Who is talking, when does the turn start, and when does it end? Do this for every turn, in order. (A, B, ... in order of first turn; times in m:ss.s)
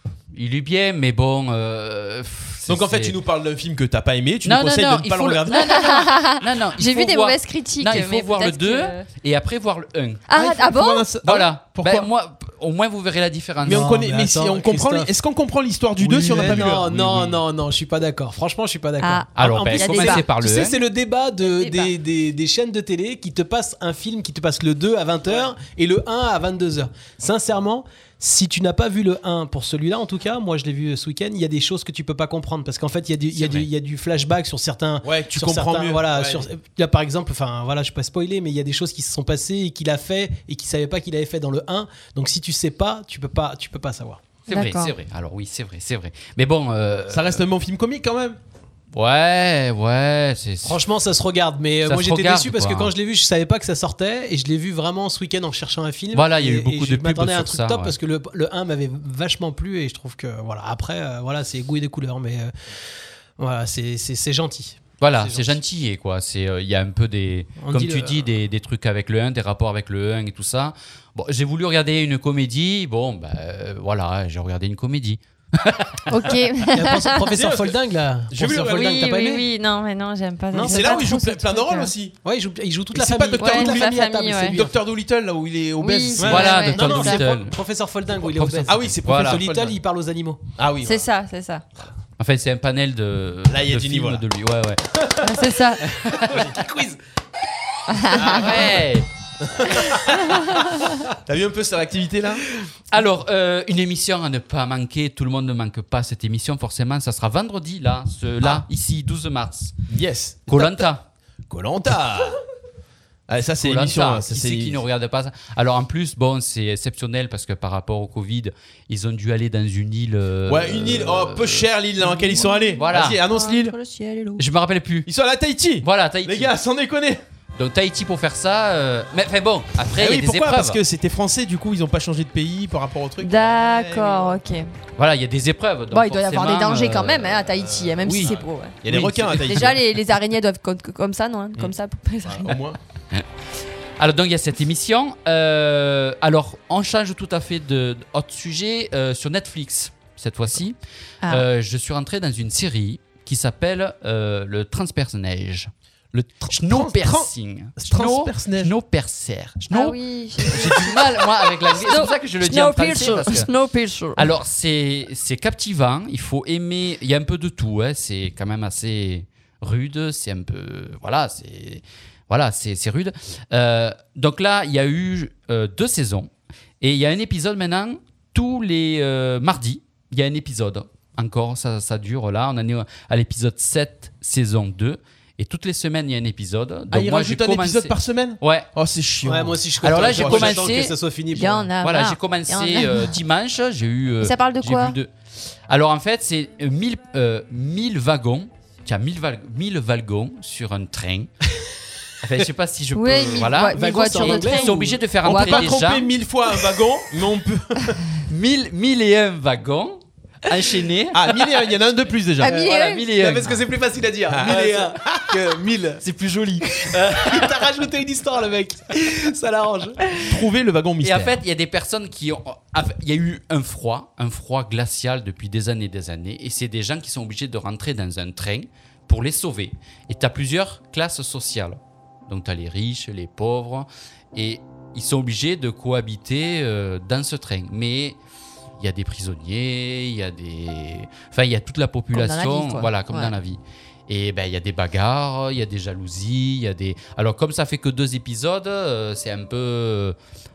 0:00.3-0:03.2 A
0:02.7-0:05.8 B
0:04.4-0:10.2 A
0:05.5-0:09.0 C
0:10.3-0:11.1 C
0:10.3-0:12.1 B
0:11.2-0:13.9 A
0:13.6-0:16.9 B
0:13.7-0:15.1 D
0:16.0-0:44.2 D
0:16.4-0:17.4 A
0:19.0-0:20.2 C
0:19.4-0:20.8 A
0:21.4-0:21.9 C
0:33.3-0:33.7 A
0:35.0-0:36.5 B
0:44.5-0:47.4 A
0:44.5-0:44.9 C
0:47.1-0:48.4 B
0:48.9-0:50.8 A
0:50.6-1:02.5 D
0:51.9-0:52.9 A
0:56.1-0:58.0 A
1:03.4-1:05.6 D
1:05.0-1:16.4 A
1:07.6-1:08.3 D
1:16.1-1:17.2 C
1:16.7-1:19.4 D
1:17.3-1:17.8 B
1:18.3-1:19.1 B
1:18.7-1:21.9 C
1:20.5-1:21.1 D
1:20.6-1:22.2 B
1:22.2-1:24.8 D
1:22.9-1:24.0 B
1:23.4-1:24.6 C
1:24.5-1:26.7 B
1:25.8-1:27.2 C
1:26.2-1:30.4 D
1:26.3-1:27.6 A
1:28.2-1:29.4 A
1:28.7-1:29.8 B
1:30.6-1:31.1 B
1:30.8-1:31.6 C
1:32.2-1:34.8 A
1:33.5-1:34.2 B
1:35.2-1:35.8 C
1:36.2-1:37.0 D
1:37.9-1:38.8 C
1:38.1-1:39.1 A
1:38.3-1:38.6 B
1:39.4-1:40.4 B
1:41.2-1:42.4 B
1:42.9-1:49.7 A
1:49.9-1:50.9 B
1:50.5-1:51.0 A
1:51.5-1:52.4 B
1:53.3-1:54.8 B
1:53.6-2:01.7 A
2:00.4-2:03.7 B
2:02.0-2:04.4 C
2:02.8-2:03.2 A
2:04.4-2:05.1 A
2:05.1-2:07.2 B
2:05.8-2:06.5 A
2:07.6-2:10.8 A
2:10.0-2:14.4 B
2:13.2-2:14.7 C
2:15.0-2:19.7 A
2:15.9-2:22.6 C
2:18.0-2:19.8 B
2:22.2-2:22.8 B
2:24.0-2:35.7 A
2:36.1-2:38.7 B
2:36.5-2:43.5 A
2:39.7-2:44.3 C
2:44.2-2:56.3 A
2:56.8-3:08.7 A
3:06.9-3:10.8 B
3:09.2-3:11.7 D
3:09.8-3:11.0 A
3:11.3-3:13.1 C
3:11.8-3:15.1 A
3:14.2-3:15.0 C
3:15.7-3:21.3 A
3:22.2-3:26.1 A
3:23.0-3:25.8 C
3:23.7-3:25.0 D
3:25.2-3:28.0 B
3:28.3-3:31.2 A
3:31.1-3:32.6 B
3:32.4-3:33.1 C
3:32.5-3:36.0 D
3:32.6-3:33.6 A
3:34.3-3:35.4 B
3:36.0-3:37.4 A
3:36.7-3:40.0 D
3:40.2-3:41.4 B
3:41.0-3:58.2 A
3:58.8-4:10.2 A
4:02.1-4:03.3 C